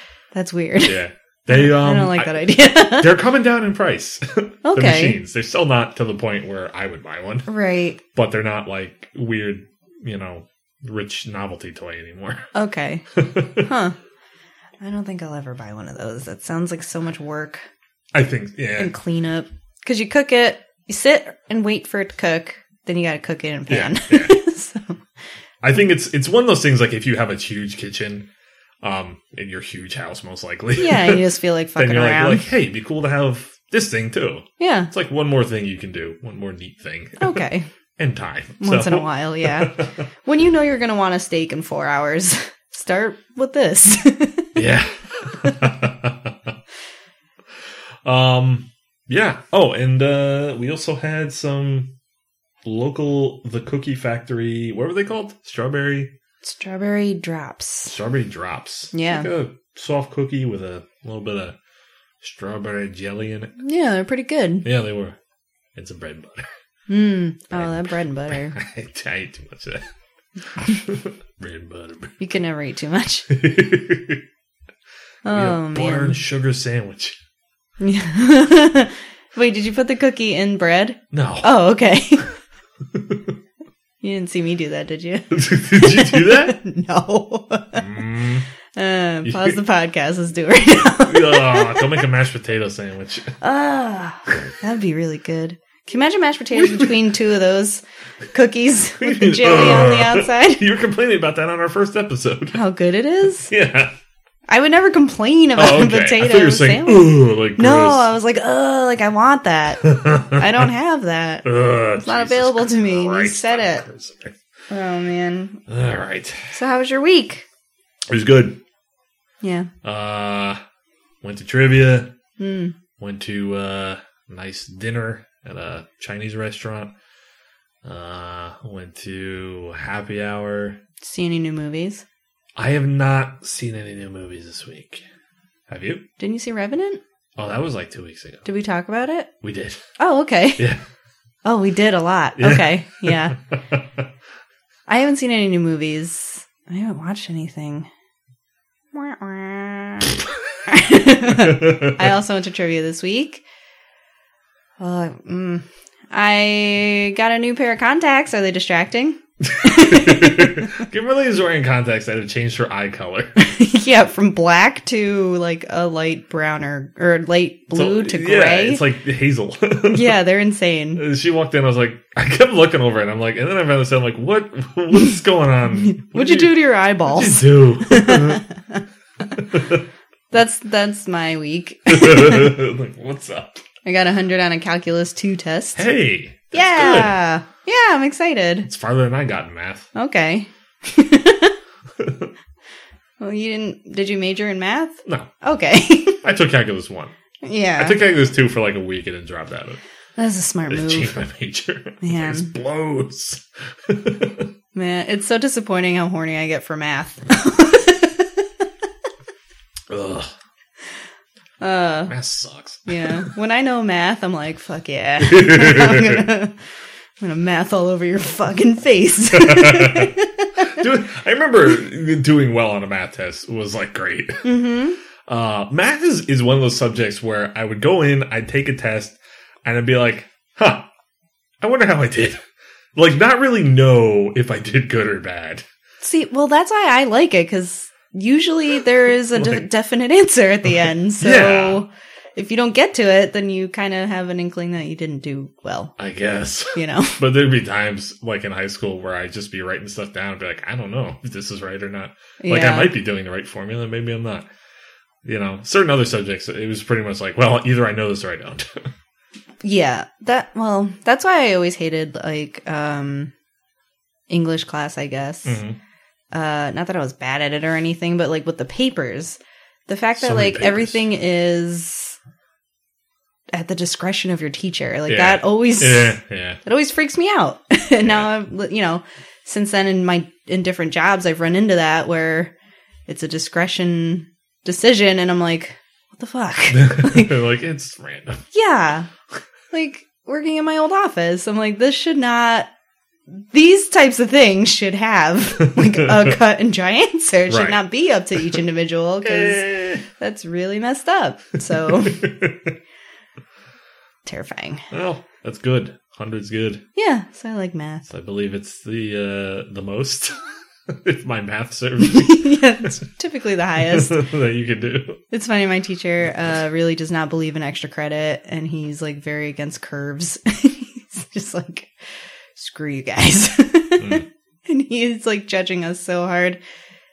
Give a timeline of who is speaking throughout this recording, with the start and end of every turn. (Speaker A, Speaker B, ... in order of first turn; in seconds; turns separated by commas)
Speaker A: 0.3-3.2, Speaker B: 0.8-7.5, Speaker A: 4.6-5.2, Speaker A: 7.5-8.0, Speaker B: 8.1-12.5, Speaker A: 12.5-13.0, Speaker B: 13.1-13.7, Speaker A: 13.6-13.9, Speaker A: 14.8-17.6, Speaker B: 18.1-18.9, Speaker A: 18.8-25.0, Speaker B: 23.7-24.4, Speaker B: 25.6-28.3, Speaker B: 28.8-37.4, Speaker A: 30.8-32.5, Speaker A: 34.6-34.9, Speaker A: 37.2-37.7, Speaker B: 38.0-40.0, Speaker A: 38.6-44.6, Speaker B: 44.5-46.5, Speaker B: 48.0-51.9, Speaker B: 52.6-56.1, Speaker A: 56.4-57.9, Speaker B: 57.9-61.5, Speaker A: 58.9-59.3, Speaker B: 62.2-63.5, Speaker A: 63.6-64.7, Speaker B: 64.6-65.2, Speaker B: 65.8-66.5, Speaker A: 66.9-68.5, Speaker B: 67.5-69.9, Speaker B: 70.4-72.2, Speaker A: 72.2-73.3, Speaker B: 73.3-74.2, Speaker A: 75.2-76.2, Speaker B: 75.3-77.2, Speaker A: 77.8-82.3, Speaker B: 81.1-81.5, Speaker B: 82.9-83.3, Speaker A: 84.0-87.8, Speaker B: 85.3-86.6, Speaker B: 87.7-88.5, Speaker A: 88.7-92.0, Speaker B: 89.2-89.6, Speaker B: 91.0-93.4, Speaker A: 93.4-100.6, Speaker B: 96.5-97.0, Speaker B: 99.0-102.6, Speaker A: 102.5-103.5, Speaker B: 103.5-103.9, Speaker A: 104.5-113.8, Speaker B: 105.5-108.1, Speaker B: 109.8-110.7, Speaker B: 111.4-114.4, Speaker A: 114.7-115.6, Speaker B: 115.7-116.5, Speaker A: 116.5-117.5, Speaker B: 118.1-118.6, Speaker A: 119.4-119.7, Speaker B: 119.8-120.6, Speaker B: 121.2-122.1, Speaker A: 122.4-122.8, Speaker B: 123.0-126.9, Speaker B: 127.8-130.8, Speaker A: 131.0-132.0, Speaker B: 132.6-135.0, Speaker B: 135.7-136.1, Speaker A: 136.2-137.0, Speaker B: 137.4-138.4, Speaker A: 138.4-139.3, Speaker B: 139.4-139.8, Speaker A: 140.0-140.6, Speaker B: 140.6-140.8, Speaker A: 141.4-143.4, Speaker B: 142.4-144.0, Speaker A: 144.9-147.9, Speaker A: 148.9-153.4, Speaker B: 151.3-152.1, Speaker A: 154.8-160.8, Speaker B: 159.4-163.5, Speaker A: 163.4-168.8, Speaker B: 167.7-170.2, Speaker A: 169.9-171.0, Speaker B: 170.9-178.4, Speaker A: 175.8-178.8, Speaker B: 179.3-179.8, Speaker A: 180.3-182.6, Speaker B: 181.9-183.6, Speaker A: 183.8-185.8, Speaker B: 185.8-187.2, Speaker A: 186.5-188.7, Speaker B: 188.6-189.9, Speaker A: 189.9-191.6, Speaker B: 192.0-192.3, Speaker A: 193.2-196.2, Speaker B: 195.1-195.3, Speaker B: 196.2-197.1, Speaker A: 197.4-198.0, Speaker B: 197.8-199.8, Speaker A: 200.2-201.2, Speaker B: 200.7-204.5, Speaker A: 202.0-202.5, Speaker A: 204.7-208.7, Speaker B: 209.9-210.3, Speaker A: 211.6-212.1, Speaker B: 212.1-213.3, Speaker A: 212.9-216.6, Speaker B: 215.2-216.2, Speaker A: 217.2-220.8, Speaker B: 219.3-224.5, Speaker A: 224.4-225.0, Speaker B: 225.3-230.9, Speaker B: 231.6-232.4, Speaker B: 232.9-235.6, Speaker A: 236.0-245.9, Speaker B: 239.3-239.6, Speaker B: 241.2-241.8, Speaker B: 246.0-254.5, Speaker A: 246.7-247.2, Speaker A: 252.4-252.9, Speaker B: 255.2-258.9, Speaker A: 259.6-263.3, Speaker A: 264.3-265.6, Speaker B: 265.4-265.8, Speaker A: 266.3-272.2, Speaker B: 270.1-271.1, Speaker A: 273.5-282.5, Speaker B: 275.1-276.6, Speaker B: 278.0-278.3, Speaker A: 283.1-287.3, Speaker B: 286.7-288.4, Speaker A: 288.5-289.1, Speaker A: 289.7-292.7, Speaker A: 293.3-302.2, Speaker B: 295.6-296.3, Speaker B: 297.5-297.8, Speaker B: 299.2-300.1, Speaker B: 301.9-302.7, Speaker A: 304.2-304.9, Speaker B: 304.9-306.8, Speaker A: 306.9-308.0, Speaker B: 308.1-313.0, Speaker A: 312.0-314.2, Speaker B: 313.8-315.2, Speaker A: 315.3-321.9, Speaker A: 322.5-326.6, Speaker B: 324.0-324.2